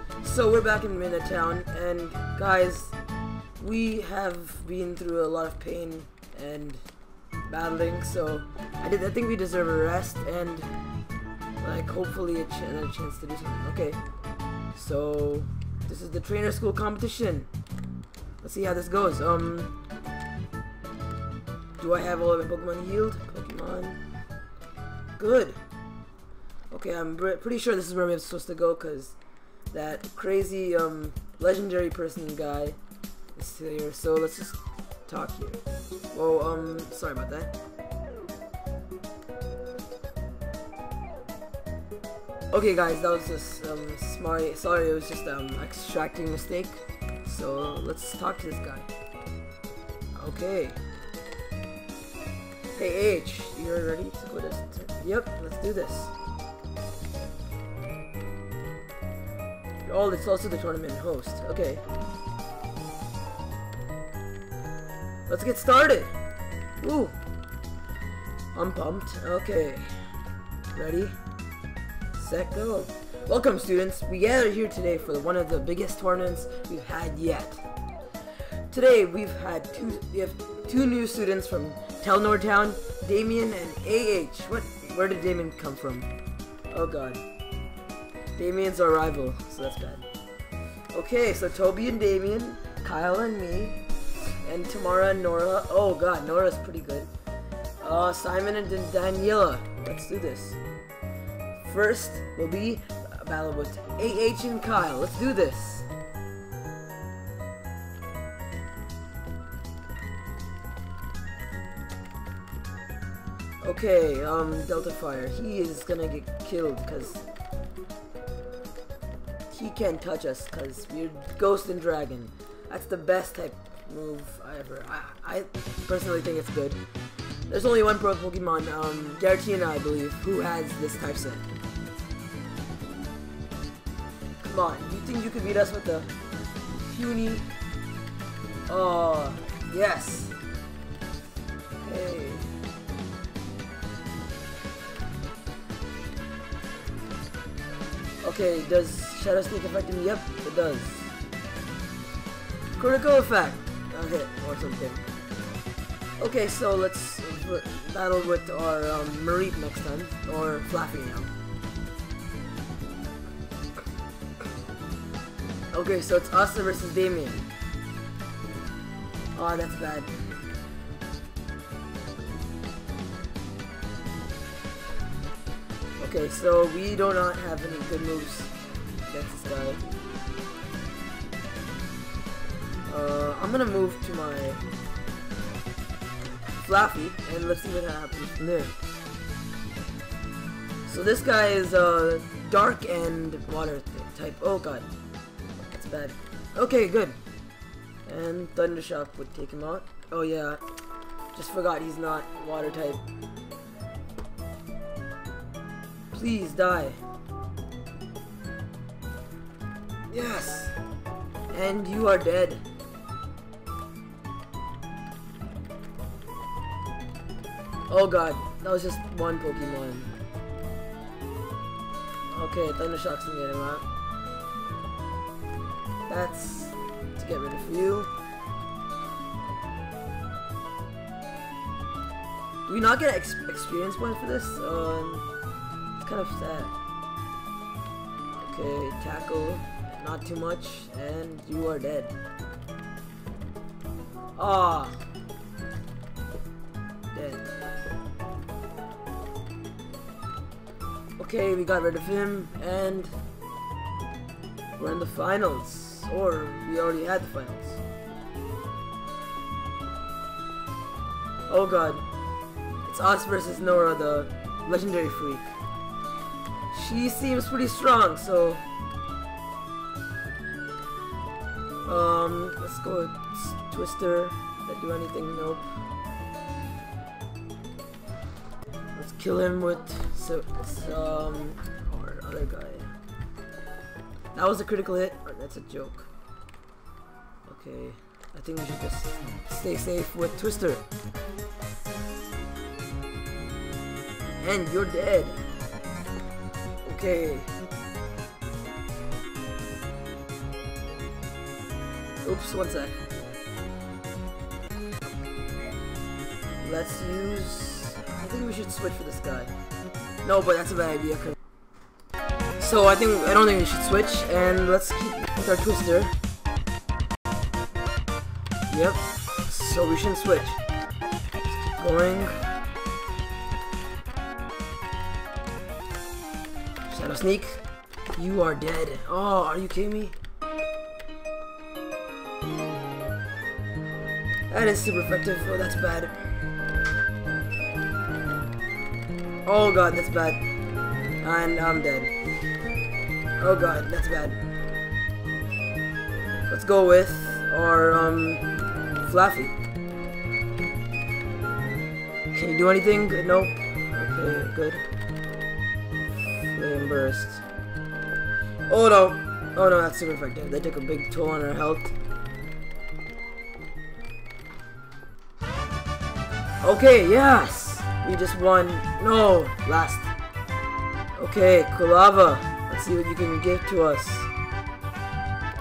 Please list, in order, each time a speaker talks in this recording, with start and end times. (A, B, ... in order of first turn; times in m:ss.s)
0:00.2-0:02.9 A
0:03.6-0:06.8 A
0:07.5-0:10.7 A
0:11.6-0:14.0 A
0:14.7-0:17.5 A
0:18.4-0:19.7 A
0:21.8-0:24.0 A
0:25.2-0:25.6 A
0:26.7-0:29.1 A
0:29.7-0:32.8 A
0:33.3-0:35.6 A
0:36.1-0:37.5 A
0:42.5-0:48.9 A
0:50.1-0:50.8 A
0:52.7-0:56.1 A
0:59.8-1:01.8 A
1:05.3-1:06.1 A
1:06.8-1:07.1 A
1:08.5-1:10.0 A
1:10.7-1:11.2 A
1:12.1-1:17.6 A
1:18.7-1:26.1 A
1:26.7-1:27.2 A
1:28.4-1:30.1 A
1:30.9-1:37.1 A
1:37.8-1:40.6 A
1:41.6-1:45.8 A
1:53.6-1:57.2 A
1:59.5-2:06.8 A
2:07.5-2:11.4 A
2:14.4-2:16.1 A
2:16.8-2:17.4 A
2:18.7-2:20.3 A
2:21.8-2:22.5 A
2:28.2-2:31.1 A
2:32.8-2:35.0 A
2:36.2-2:41.3 A
2:45.7-2:47.5 A
2:49.3-2:50.1 A
2:56.0-2:58.5 A
2:59.0-2:59.8 A
3:02.8-3:04.6 A
3:06.5-3:08.8 A
3:10.8-3:14.9 A
3:15.7-3:17.2 A
3:18.0-3:20.6 A
3:21.3-3:23.0 A
3:26.1-3:27.0 A
3:30.1-3:30.7 A
3:31.5-3:32.6 A
3:37.9-3:40.1 A
3:42.3-3:43.8 A
3:46.1-3:48.1 A
3:52.7-3:55.2 A
3:56.0-3:56.7 A
3:58.4-4:02.1 A
4:04.3-4:05.0 A
4:07.1-4:07.5 A
4:11.2-4:13.1 A
4:14.8-4:17.8 A
4:21.5-4:22.0 A
4:22.8-4:25.5 A
4:26.7-4:28.6 A
4:31.8-4:35.7 A
4:38.9-4:42.9 A
4:44.3-4:46.1 A
4:47.4-4:50.8 A
4:54.4-4:55.4 A
4:56.8-4:57.5 A
5:02.2-5:03.1 A
5:06.6-5:09.5 A
5:10.2-5:11.4 A
5:12.6-5:16.1 A
5:18.7-5:20.6 A
5:21.5-5:22.4 A
5:26.9-5:27.6 A
5:28.1-5:30.2 A
5:34.5-5:36.3 A
5:39.4-5:40.4 A
5:41.2-5:42.1 A
5:43.4-5:44.4 A
5:46.5-5:48.4 A
5:49.0-5:49.5 A
5:52.3-5:54.8 A
5:56.4-5:57.4 A
5:58.7-6:01.9 A
6:06.6-6:10.1 A
6:11.1-6:14.3 A